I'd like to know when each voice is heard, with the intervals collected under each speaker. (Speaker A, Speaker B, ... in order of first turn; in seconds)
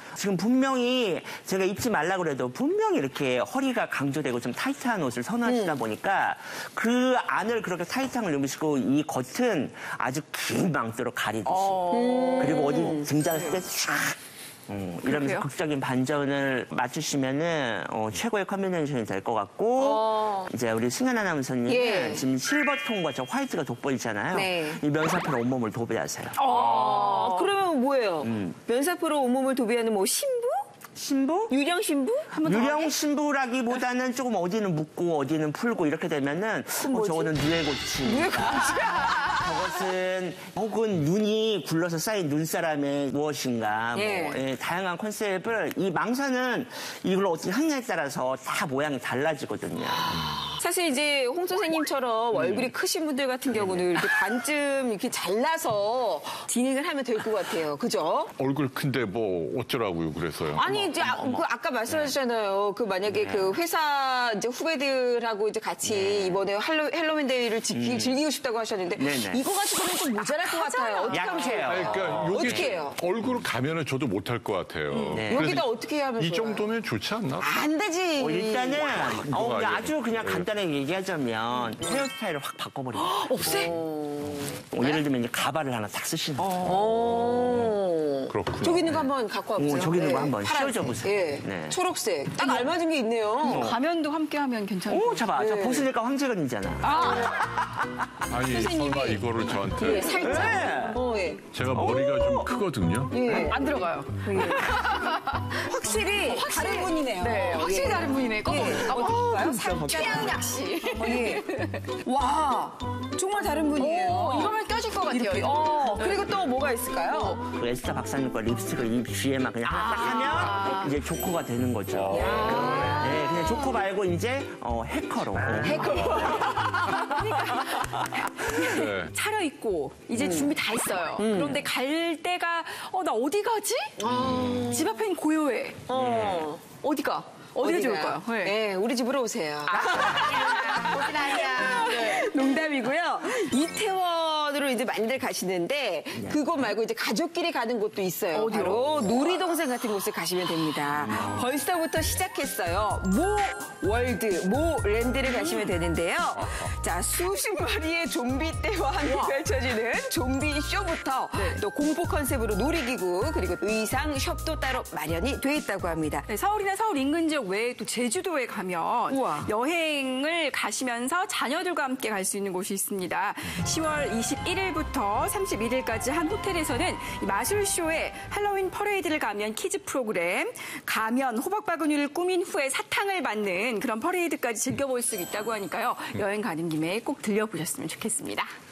Speaker A: 0.1-26.4, 28.2-28.6, 31.0-31.5, 32.4-50.4, 52.3-52.7, 53.5-53.9, 60.6-62.1, 63.0-63.6, 65.8-66.4, 67.7-68.2, 69.0-69.4, 71.1-72.7, 75.1-75.5, 78.2-83.7, 84.2-87.8, 89.6-91.8, 93.4-93.8, 94.9-97.2, 100.0-101.0, 101.7-102.5, 109.5-110.3, 117.5-126.5, 134.1-134.7, 135.9-136.5, 146.1-146.6, 151.0-151.4
Speaker B: 5.5-5.8, 11.9-13.1, 19.8-20.5, 21.7-22.3, 24.3-24.8, 26.4-30.7, 31.5-32.4, 36.8-37.3, 38.0-39.8, 43.9-44.4, 50.5-58.3, 60.5-73.0, 75.3-76.7, 77.4-79.0, 83.3-85.0, 86.6-93.7, 95.3-95.9, 97.0-97.7, 98.5-99.2, 99.8-101.4, 103.1-104.9, 105.7-111.5, 112.0-117.4, 122.1-123.7, 125.6-127.7, 130.1-130.6, 131.2-131.7, 134.0-135.0, 135.9-136.6, 137.6-166.2, 169.1-169.5
Speaker C: 11.4-12.8, 15.0-15.5, 26.4-27.5, 32.3-32.9, 70.4-71.7, 74.9-75.2, 83.1-83.7, 92.4-92.7, 93.4-95.3, 96.8-97.4, 100.2-100.7, 103.2-111.8, 113.8-116.3, 117.1-117.4, 119.7-120.9, 126.2-134.0, 134.7-135.8, 136.7-138.6, 139.7-142.3, 148.3-148.9, 155.3-155.8, 159.0-159.3, 161.3-161.6, 166.3-188.5
Speaker D: 58.4-61.0, 71.6-77.6, 78.8-80.5, 88.3-89.1, 98.3-100.4, 101.5-103.2, 121.9-123.0, 128.6-129.1